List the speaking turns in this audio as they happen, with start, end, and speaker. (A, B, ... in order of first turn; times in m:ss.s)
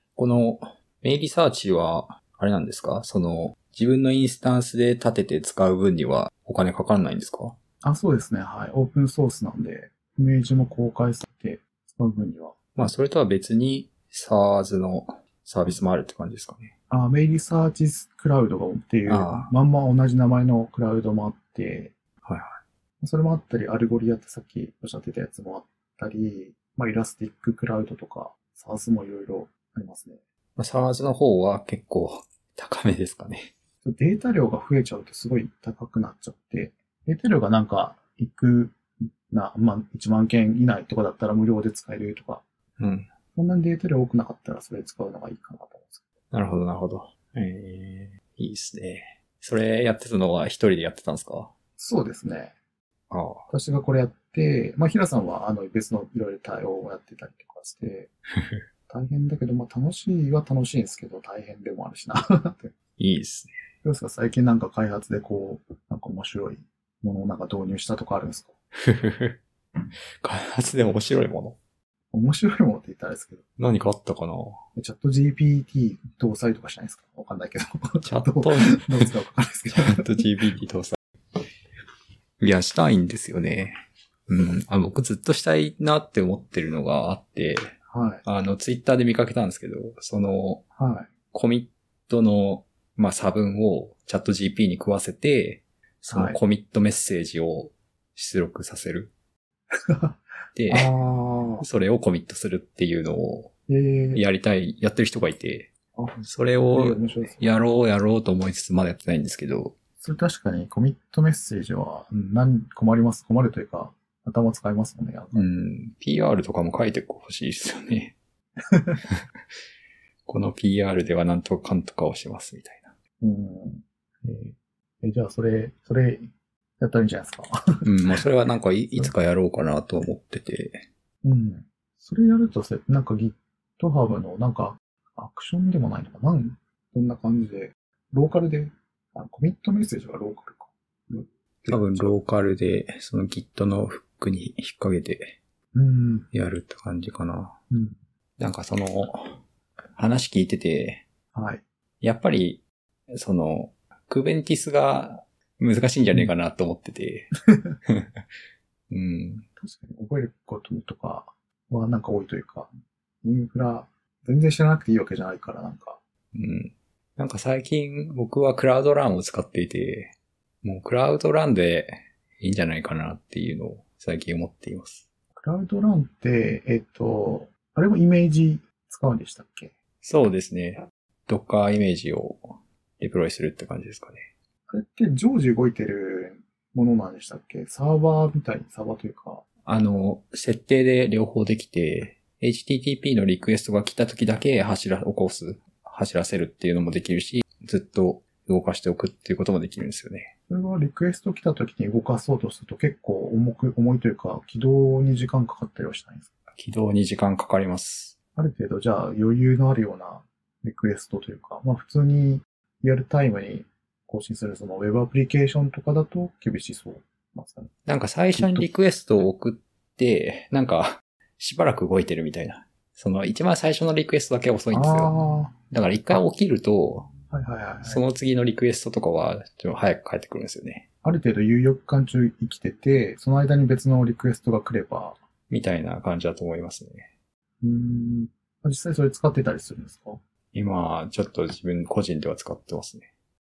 0:00.2-0:07.6 A
0:07.8-0:12.6 B
0:12.8-0:16.7 A
0:16.9-0:21.9 B
0:19.1-0:19.5 A
0:22.2-0:22.6 A
0:23.0-0:30.2 B
0:30.6-0:33.5 A
0:33.8-0:42.4 B
0:42.8-0:43.1 A
0:43.4-0:46.1 B
0:46.3-0:51.5 A
0:51.8-0:52.6 B
0:53.1-0:53.5 A
0:53.5-0:58.1 B
0:58.9-1:02.7 B
1:03.0-1:03.5 A
1:03.8-1:08.5 B
1:08.8-1:09.4 A
1:10.2-1:11.6 A
1:12.1-1:13.4 B
1:13.6-1:14.6 A
1:14.8-1:20.2 B
1:18.0-1:19.1 A
1:19.7-1:21.0 A
1:22.4-1:23.7 A
1:24.3-1:30.6 A
1:27.9-1:28.2 B
1:30.8-1:31.1 B
1:31.3-1:39.1 A
1:36.1-1:36.4 B
1:39.7-1:41.7 B
1:40.6-1:40.9 A
1:41.6-1:43.5 A
1:43.7-1:44.2 B
1:44.1-1:49.8 A
1:46.7-1:47.4 B
1:50.0-1:55.5 B
1:55.3-1:58.2 A
2:00.3-2:02.9 A
2:03.2-2:08.2 B
2:07.8-2:10.8 A
2:11.2-2:22.2 B
2:21.7-2:25.4 A
2:25.7-2:26.3 B
2:26.3-2:27.6 A
2:27.7-2:28.0 B
2:28.4-2:29.4 A
2:30.0-2:31.0 A
2:31.3-2:31.6 B
2:32.0-2:38.2 A
2:38.9-2:39.4 A
2:39.6-2:42.7 B
2:43.2-2:46.0 B
2:46.3-2:55.0 A
2:55.4-2:59.7 B
3:00.0-3:04.3 A
3:04.7-3:09.4 B
3:09.7-3:20.3 A
3:20.5-3:26.3 B
3:26.6-3:28.2 A
3:28.4-3:37.7 B
3:37.9-3:45.1 A
3:38.4-3:38.7 B
3:44.7-3:45.6 B
3:45.7-3:47.1 A
3:47.3-3:48.0 B
3:47.8-3:50.9 A
3:51.0-3:55.2 B
3:55.5-3:57.1 A
3:57.6-4:00.2 B
4:00.5-4:03.1 A